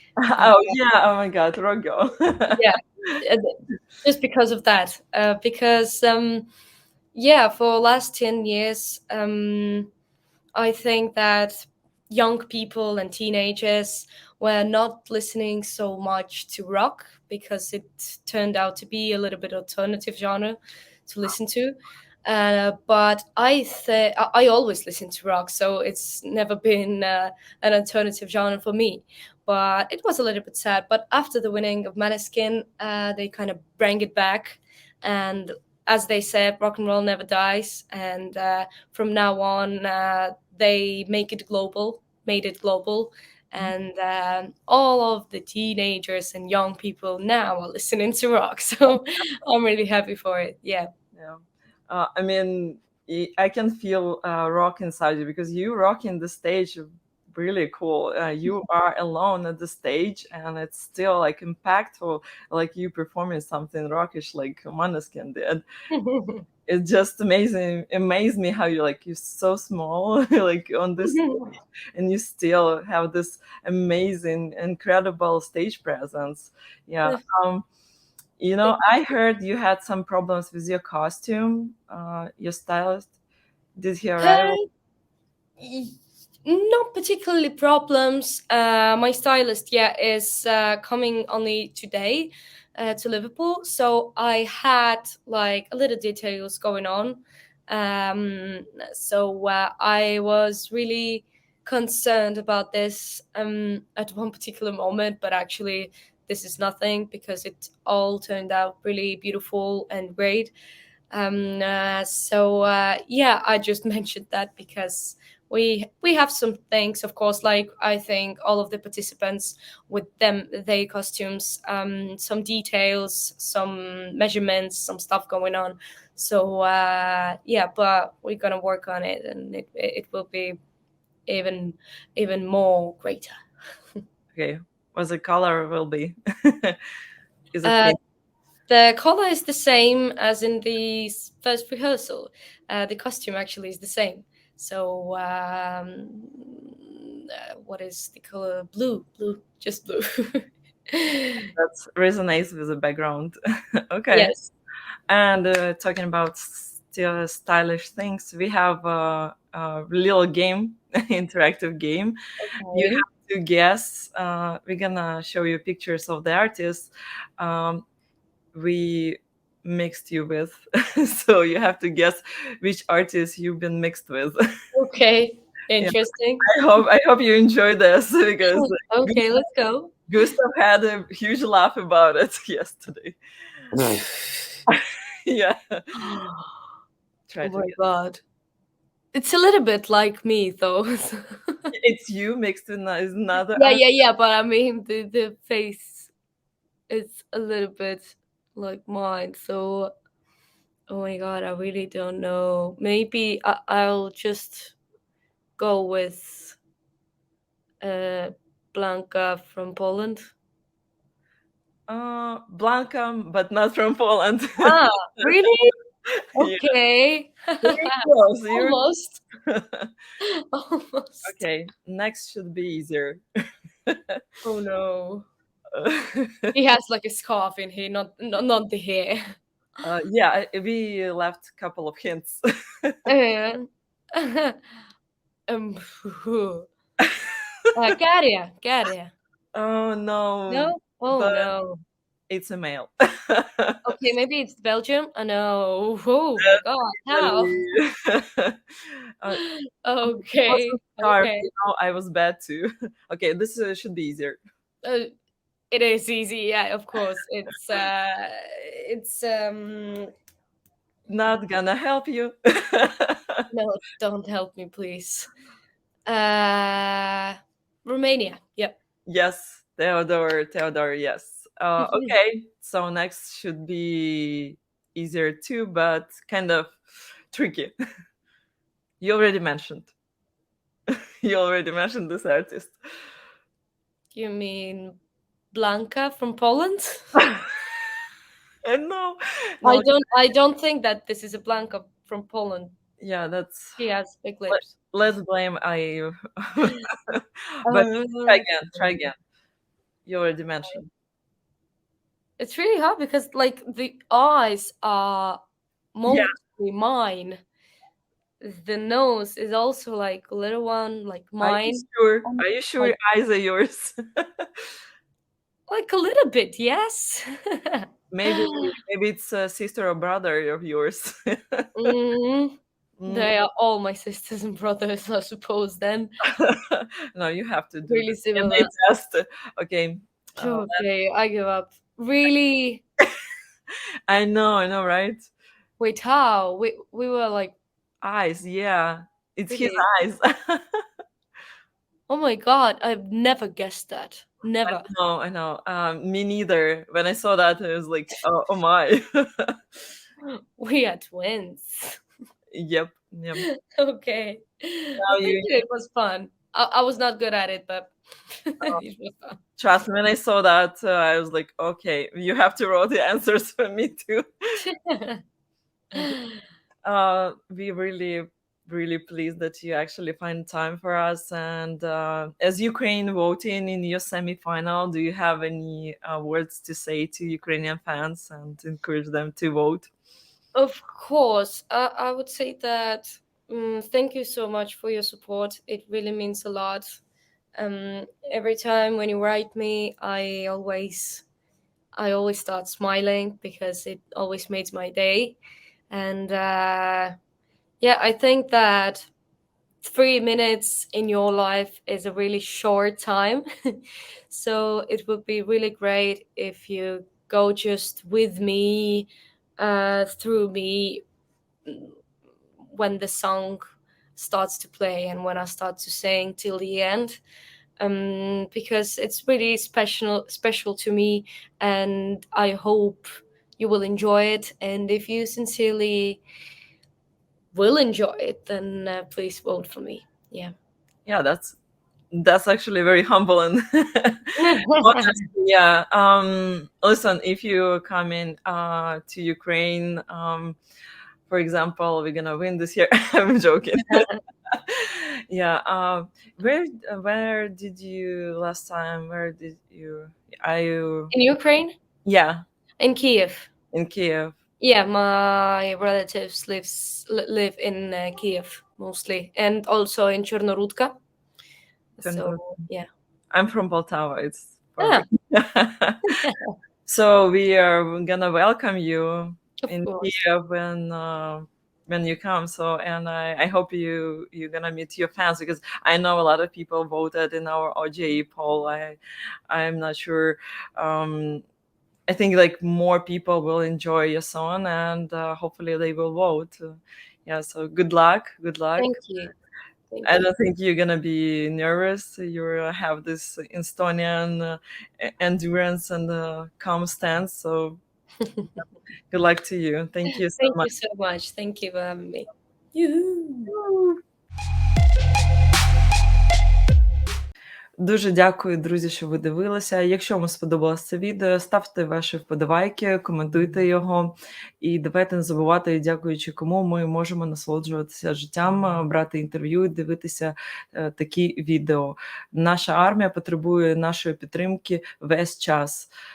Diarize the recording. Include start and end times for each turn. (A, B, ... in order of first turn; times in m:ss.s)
0:00.2-0:03.1 A
0:00.4-0:00.8 B
0:02.6-0:06.5 B
0:07.1-0:09.9 B
0:10.5-0:50.9 B
0:51.1-1:05.6 A
1:05.9-1:06.4 B
1:06.7-1:17.6 A
1:11.1-1:11.5 B
1:18.4-1:23.1 A
1:23.8-1:24.6 A
1:24.2-1:24.7 B
1:25.6-1:50.5 B
1:51.1-2:10.6 B
2:11.2-2:13.4 B
2:14.3-2:16.8 A
2:17.5-2:18.0 A
2:17.6-2:18.0 B
2:18.7-2:31.5 B
2:31.6-2:34.3 A
2:34.1-2:34.5 B
2:35.1-2:42.2 A
2:42.4-2:43.0 B
2:42.7-2:47.8 A
2:48.5-2:54.4 A
2:54.7-2:56.4 B
2:55.8-2:59.2 A
2:58.5-3:00.0 B
3:00.1-3:03.2 A
3:04.7-3:06.2 A
3:06.0-3:06.6 B
3:07.3-3:07.8 A
3:07.4-3:08.2 B
3:09.1-3:11.7 B
3:11.7-3:13.8 A
3:13.6-3:16.1 B
3:16.9-3:19.9 B
3:20.9-3:24.8 B
3:25.6-3:26.6 B
3:27.8-3:30.3 B
3:31.9-3:35.5 A
3:34.6-3:35.7 B
3:36.1-3:36.7 A
3:36.4-3:39.2 B
3:37.6-3:38.8 A
3:39.5-3:39.9 A
3:40.2-3:41.3 B
3:41.2-3:43.2 A
3:43.8-3:44.2 A
3:44.4-3:45.2 B
3:45.7-3:46.5 A
3:46.5-3:49.3 B
3:49.8-3:53.0 A
3:53.0-3:54.6 B
3:55.5-3:56.7 B
3:57.0-3:57.3 A
3:57.7-3:59.1 B
3:59.5-4:01.5 A
4:00.5-4:01.8 B
4:02.3-4:03.9 A
4:03.8-4:07.7 B
4:06.4-4:09.4 A
4:09.3-4:11.5 B
4:10.2-4:14.4 A
4:14.8-4:15.1 B
4:15.7-4:20.1 B
4:21.1-4:23.4 A
4:23.5-4:25.3 B
4:26.1-4:28.8 B
4:29.1-4:37.7 A
4:31.8-4:32.1 B
4:39.0-4:39.9 A
4:40.9-4:42.8 A
4:44.1-4:44.9 B
4:45.5-4:47.2 B
4:48.6-4:49.9 A
4:49.6-4:52.8 B
4:53.0-4:53.8 A
4:53.8-4:54.7 B
4:54.5-4:59.2 A
4:57.6-4:58.8 B
5:00.0-5:00.9 A
5:02.4-5:05.4 B
5:05.9-5:07.4 B
5:08.4-5:12.9 B
5:11.4-5:14.6 A
5:15.7-5:18.7 B
5:18.1-5:21.9 A
5:21.8-5:26.1 B
5:23.0-5:23.3 A
5:26.3-5:30.8 A
5:27.9-5:28.7 B
5:30.4-5:32.8 B
5:34.1-5:35.2 A
5:35.8-5:37.6 B
5:38.0-5:40.8 A
5:39.5-5:39.8 B
5:42.1-5:44.9 B
5:44.6-5:49.6 A
5:50.2-5:52.0 B
5:52.5-5:53.4 A
5:53.4-5:59.4 B
5:55.0-5:55.5 A
5:59.6-6:04.2 A
6:04.6-6:05.2 B
6:06.8-6:19.9 A
6:20.5-6:27.0 B
6:27.6-6:31.2 B
6:32.0-6:35.4 B
6:35.9-6:37.2 B
6:37.8-6:39.1 B
6:39.8-6:51.0 B
6:51.6-6:51.9 B
6:52.6-6:53.6 B
6:54.2-6:57.2 B
6:57.8-7:06.2 B
7:07.5-7:10.5 B
7:11.0-7:11.6 A
7:12.1-7:20.6 A
7:14.4-7:15.2 B
7:21.3-7:31.1 A
7:23.9-7:24.2 B
7:31.1-7:31.8 B
7:32.0-7:32.4 A
7:32.8-7:33.5 B
7:33.7-7:34.4 A
7:34.6-7:40.9 B
7:42.0-7:42.9 B
7:42.0-7:42.6 A
7:43.3-7:46.2 A
7:44.8-7:45.1 B
7:46.1-7:46.5 B
7:46.8-7:59.0 A
7:49.6-7:50.1 B
7:59.5-8:01.4 A
8:02.1-8:09.0 A
8:08.8-8:09.3 B
8:09.9-8:10.2 B
8:10.0-8:17.8 A
8:19.1-8:20.7 A
8:20.1-8:23.5 B
8:23.5-8:24.0 A
8:27.8-8:45.9 A